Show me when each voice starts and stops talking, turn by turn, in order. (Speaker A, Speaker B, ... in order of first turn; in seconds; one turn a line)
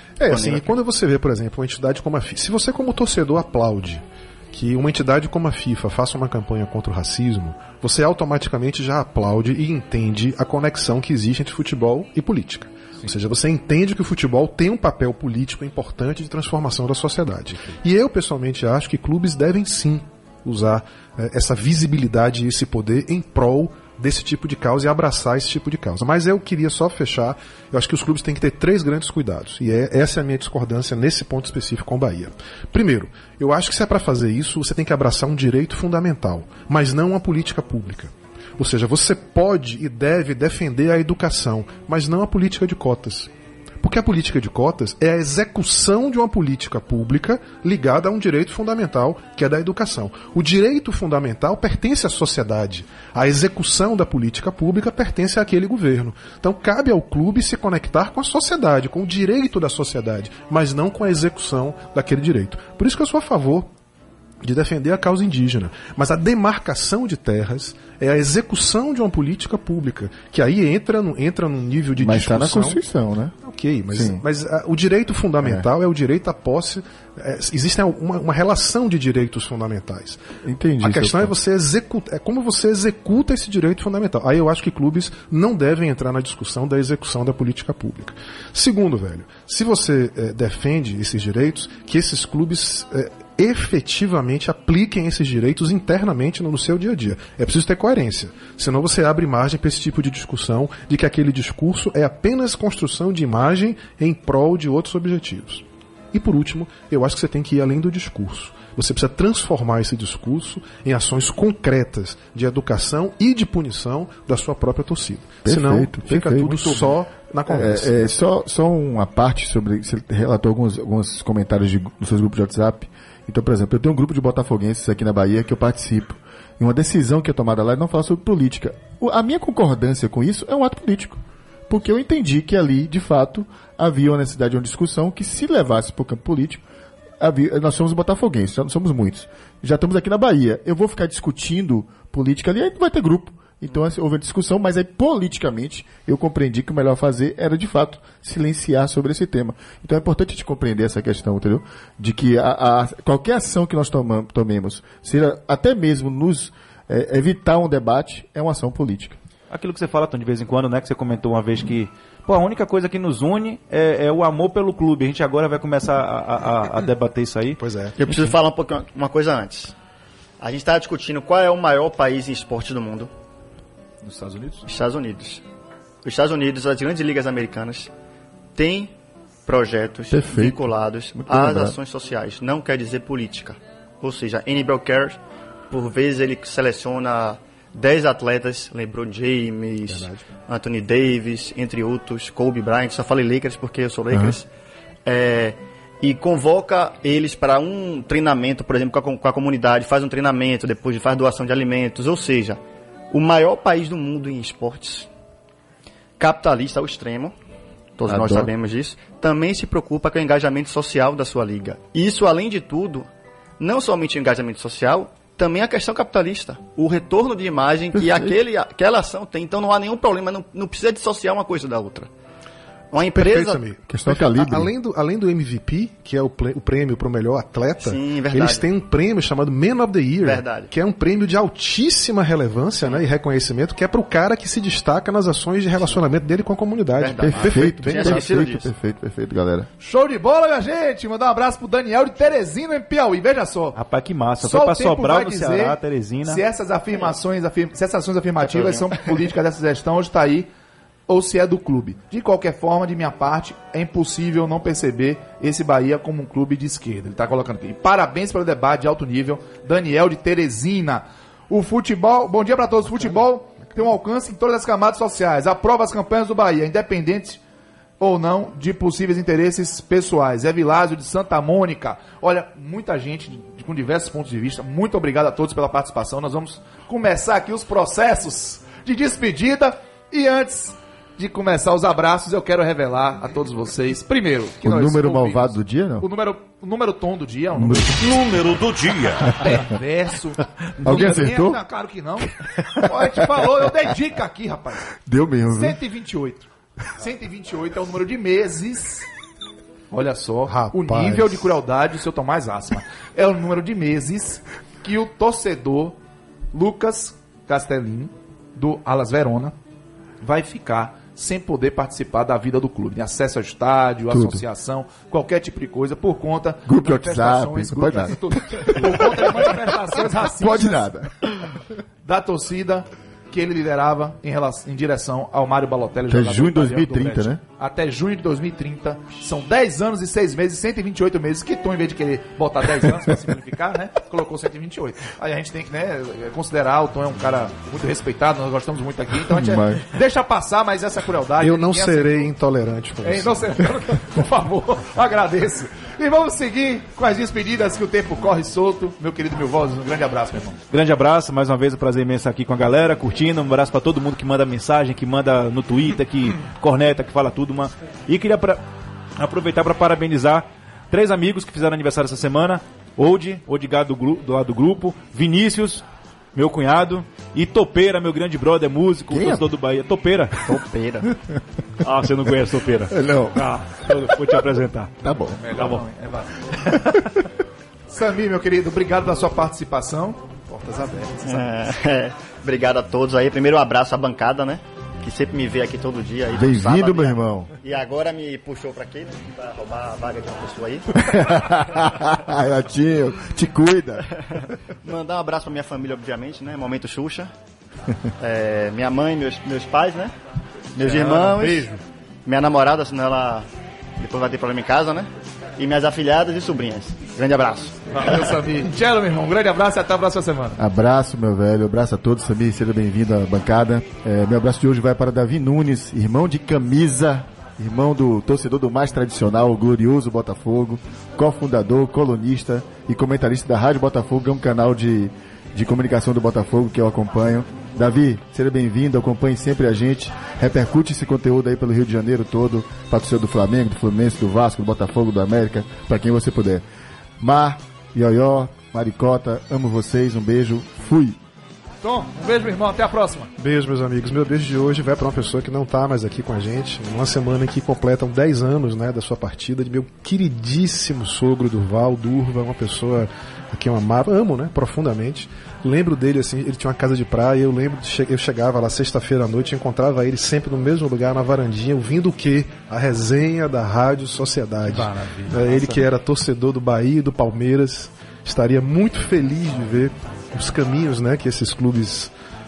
Speaker A: 0.2-43.3
Speaker B: 0.3-0.8
Speaker A: 43.8-63.7
Speaker A: 64.4-72.8
Speaker C: 72.0-73.3
Speaker A: 73.4-80.2
Speaker C: 73.9-74.2
Speaker C: 75.4-75.7
Speaker C: 80.5-81.3
Speaker A: 80.8-118.2
Speaker C: 115.4-116.9
Speaker C: 117.5-136.6
Speaker C: 137.2-159.2
Speaker D: 159.5-167.6
Speaker A: 167.6-168.0
Speaker B: 167.9-169.7
Speaker B: 170.4-173.1
Speaker D: 174.0-174.6
Speaker B: 174.6-175.4
Speaker B: 176.0-177.9
Speaker B: 178.5-178.9
Speaker B: 179.4-185.2
Speaker C: 180.1-181.8
Speaker B: 185.7-194.5
Speaker A: 189.9-190.2
Speaker C: 194.1-194.4
Speaker B: 195.1-202.6
Speaker B: 203.1-205.1
Speaker B: 206.2-207.3
Speaker B: 207.9-213.1
Speaker C: 208.1-208.5
Speaker B: 213.6-222.1
Speaker C: 217.9-218.4
Speaker B: 222.9-223.6
Speaker A: 223.0-238.3
Speaker C: 223.9-224.7
Speaker B: 227.8-228.7
Speaker B: 230.2-230.7
Speaker B: 236.9-238.7
Speaker C: 237.2-239.7
Speaker E: 239.8-243.8
Speaker D: 243.7-246.4
Speaker E: 244.4-250.5
Speaker B: 248.4-248.9
Speaker E: 251.1-267.4
Speaker E: 268.0-288.0
Speaker C: 284.6-286.1
Speaker C: 287.6-288.1
Speaker D: 288.0-289.4
Speaker E: 289.3-294.9
Speaker C: 290.8-291.6
Speaker C: 292.2-293.3
Speaker C: 295.0-295.8
Speaker E: 295.4-299.1
Speaker E: 299.9-305.9
Speaker A: 300.4-301.5
Speaker E: 306.5-309.5
Speaker E: 310.2-320.9
Speaker C: 314.1-314.4
Speaker C: 316.6-319.5
Speaker C: 320.3-321.5
Speaker E: 322.0-342.3
Speaker C: 326.1-327.4
Speaker C: 339.2-339.9
Speaker A: 341.4-343.4
Speaker E: 343.0-350.6
Speaker D: 350.7-358.6
Speaker D: 359.2-370.4
Speaker C: 369.1-369.5
Speaker B: 370.4-371.1
Speaker D: 371.8-375.0
Speaker C: 372.9-373.9
Speaker C: 375.0-375.4
Speaker E: 375.4-376.5
Speaker D: 375.5-375.8
Speaker D: 376.6-377.1
Speaker E: 377.9-381.7
Speaker B: 381.2-391.1
Speaker C: 386.3-387.5
Speaker C: 390.9-394.4
Speaker B: 394.3-397.3
Speaker B: 398.2-400.1
Speaker B: 400.7-401.7
Speaker E: 400.8-401.8
Speaker B: 402.2-403.4
Speaker B: 404.0-407.8
Speaker E: 407.9-410.6
Speaker C: 410.6-436.6
Speaker C: 437.2-441.2
Speaker E: 441.8-443.3
Speaker A: 443.4-472.1
Speaker E: 464.6-465.9